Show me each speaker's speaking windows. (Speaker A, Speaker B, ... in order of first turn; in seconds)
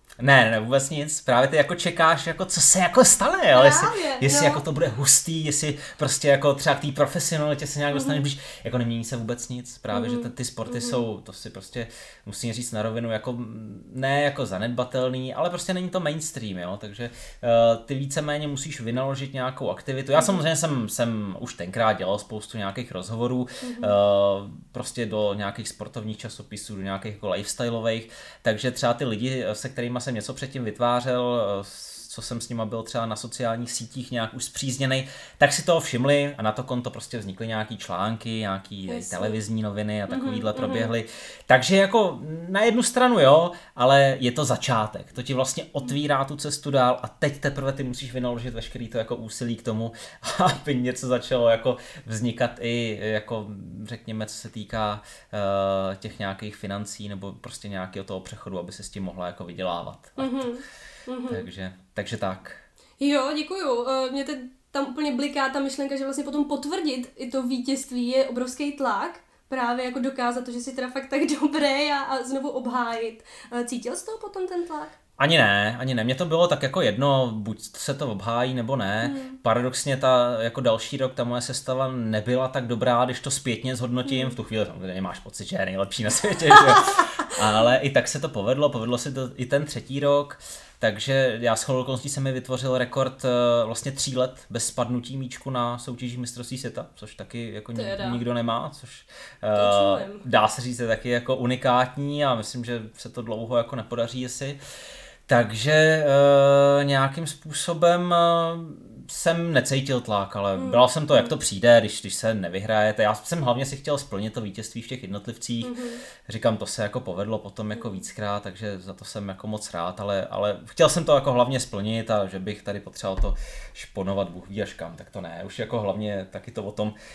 Speaker A: 0.2-60.5, 61.3-62.6, 75.2-104.6, 105.3-127.0
Speaker B: 3.5-4.6, 7.9-8.2, 9.9-11.0, 20.1-20.4, 23.6-23.9, 38.9-39.4, 40.1-40.9, 60.2-61.5, 63.0-74.9, 79.0-79.4, 84.1-84.4, 97.8-98.2, 99.5-100.2, 110.5-111.3, 115.6-116.0, 117.8-118.0